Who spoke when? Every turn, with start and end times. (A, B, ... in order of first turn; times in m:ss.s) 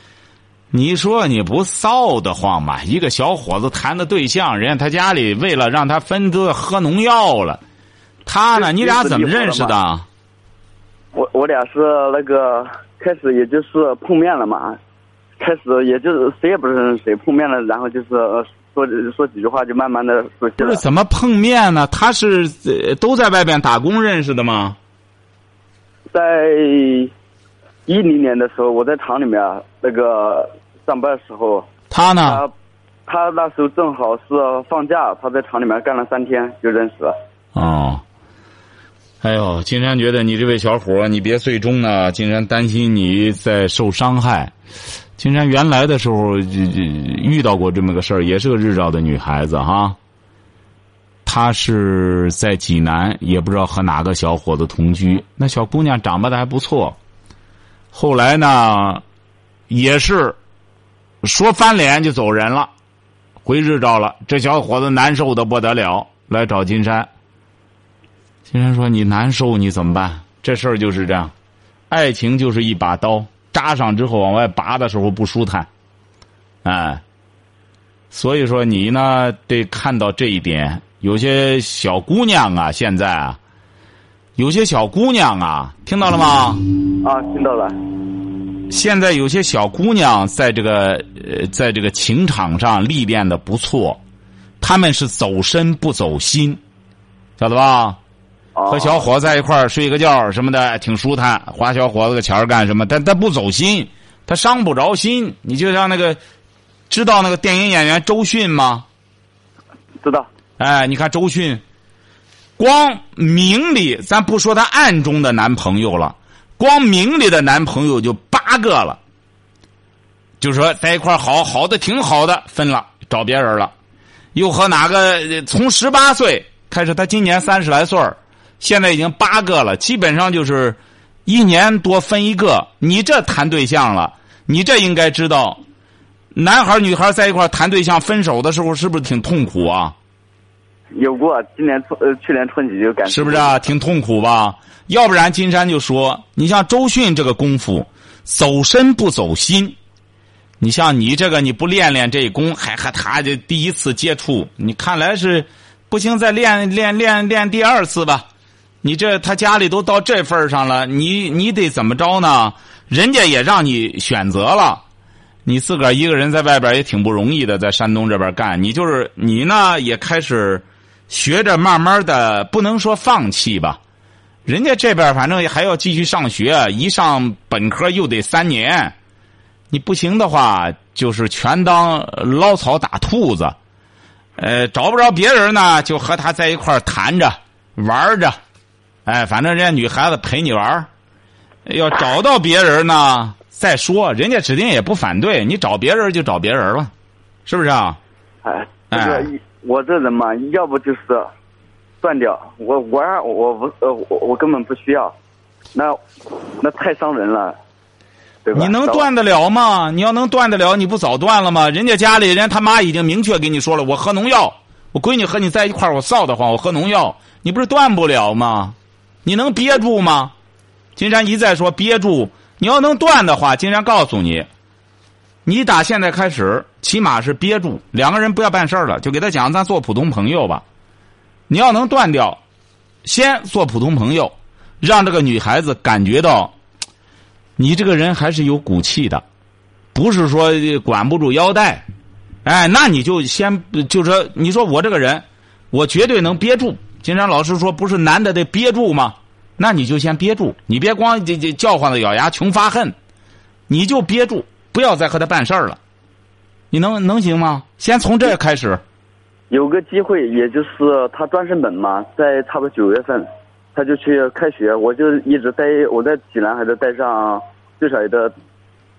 0:00.7-0:07.6 A
0:08.3-0:10.1 A
0:08.6-0:09.8 B
0:11.1-0:14.8 B
0:15.4-0:20.8 B
0:20.6-0:24.8 A
0:26.1-0:27.1 B
0:27.9-0:31.7 B
0:31.9-0:32.4 A
0:32.2-0:32.5 B
0:33.1-0:37.2 B
0:37.6-0:38.0 A
0:39.2-0:44.5 A
0:45.2-0:50.0 A
0:51.3-0:57.0 A
0:57.9-0:59.0 A
0:59.7-1:00.4 A
1:01.2-1:02.7 A
1:03.4-1:07.1 A
1:08.5-1:11.3 A
1:11.9-1:15.7 A
1:16.6-1:17.0 A
1:18.1-1:23.4 A
1:24.4-1:26.6 A
1:27.0-1:27.8 B
1:28.7-1:34.0 A
1:34.6-1:36.6 A
1:37.4-1:38.0 A
1:38.6-1:39.0 B
1:38.7-1:46.2 A
1:46.9-1:48.9 A
1:50.6-1:51.6 A
1:52.6-1:59.0 A
2:00.4-2:03.7 A
2:04.3-2:15.6 A
2:16.3-2:20.0 A
2:21.0-2:23.5 B
2:23.1-2:29.8 A
2:30.6-2:38.3 A
2:38.8-2:44.8 A
2:45.4-2:53.8 A
2:54.5-2:59.0 A
2:59.7-3:03.6 A
3:04.4-3:08.4 A
3:09.1-3:10.9 A
3:11.7-3:16.9 A
3:17.5-3:18.0 A
3:18.4-3:21.3 B
3:18.9-3:19.3 A
3:22.0-3:25.1 B
3:25.7-3:27.6 B
3:28.4-3:29.1 B
3:28.5-3:40.3 A
3:41.0-3:44.5 A
3:45.4-3:50.6 A
3:51.5-3:52.4 A
3:53.0-3:56.5 A
3:57.6-3:59.2 A
3:59.9-4:01.8 A
4:02.4-4:13.0 A
4:13.7-4:15.8 A
4:16.7-4:18.8 A
4:19.5-4:28.3 B